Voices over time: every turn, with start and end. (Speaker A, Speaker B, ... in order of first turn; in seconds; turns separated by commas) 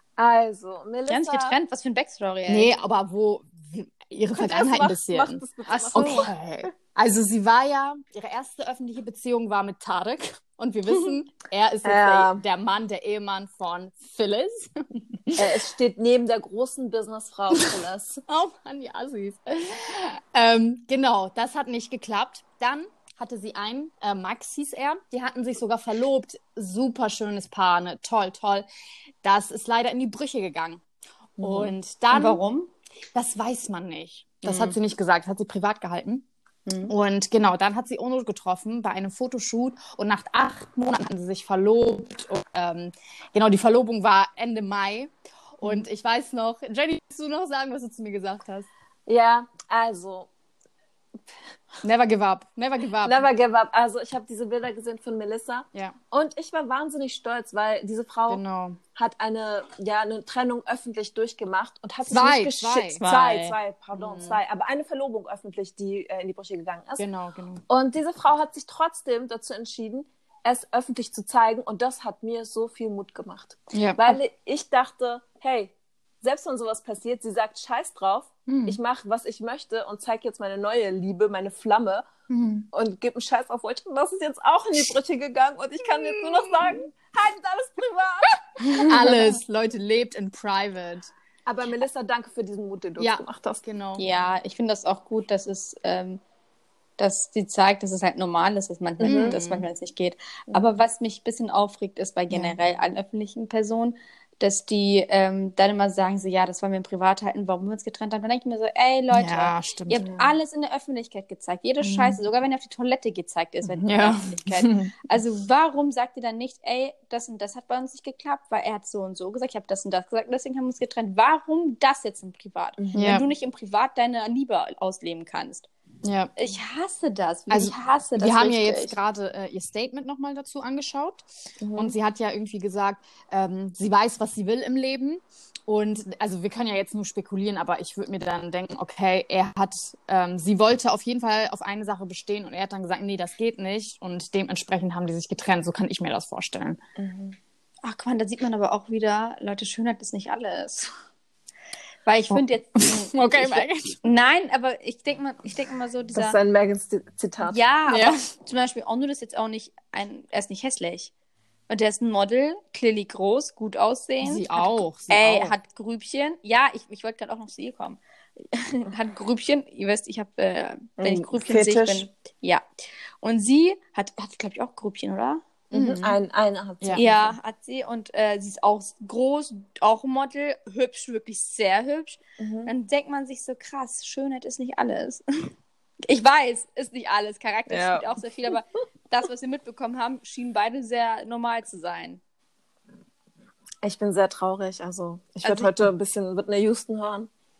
Speaker A: 0.2-1.6, Speaker B: 1.1-2.7, Speaker C: 2.5-5.4, Speaker A: 4.3-6.3, Speaker B: 5.7-6.3, Speaker C: 5.9-15.6, Speaker A: 11.8-12.4, Speaker A: 15.3-18.2, Speaker C: 18.3-28.6, Speaker C: 29.2-30.8, Speaker C: 31.4-32.4, Speaker A: 31.4-31.7, Speaker B: 32.1-32.7, Speaker C: 33.1-36.2, Speaker B: 36.6-36.9, Speaker C: 36.9-48.7, Speaker A: 49.1-50.3, Speaker C: 51.8-53.3, Speaker A: 53.0-58.4, Speaker C: 58.3-58.8, Speaker A: 58.9-67.1, Speaker C: 62.1-63.0, Speaker B: 63.0-63.6, Speaker C: 63.9-64.4, Speaker C: 67.0-67.6, Speaker A: 67.7-82.0, Speaker C: 73.7-74.2, Speaker B: 82.3-82.6, Speaker A: 82.7-89.2, Speaker C: 86.0-86.8, Speaker C: 88.7-91.1, Speaker A: 91.5-93.6, Speaker C: 93.0-94.0, Speaker B: 94.0-96.2, Speaker B: 97.0-125.7, Speaker A: 99.0-99.4, Speaker C: 99.0-99.7, Speaker C: 102.3-102.6, Speaker C: 109.1-110.0, Speaker C: 111.8-112.2, Speaker C: 113.8-114.9, Speaker A: 122.8-123.2, Speaker C: 122.9-123.2, Speaker C: 126.0-126.3, Speaker B: 126.3-128.9, Speaker C: 127.5-146.8, Speaker A: 131.6-131.9, Speaker A: 147.0-147.4, Speaker B: 147.8-150.9, Speaker B: 152.1-156.4, Speaker C: 152.3-154.0, Speaker A: 156.1-157.6, Speaker B: 157.4-161.1, Speaker C: 157.9-158.2, Speaker B: 161.7-172.6, Speaker C: 164.2-165.5, Speaker A: 171.0-172.1, Speaker B: 173.2-175.4, Speaker A: 175.7-177.3, Speaker C: 175.7-176.2, Speaker B: 176.9-185.2, Speaker A: 182.4-182.7, Speaker B: 186.1-192.2, Speaker A: 187.7-188.2, Speaker A: 193.8-197.3, Speaker B: 195.4-195.7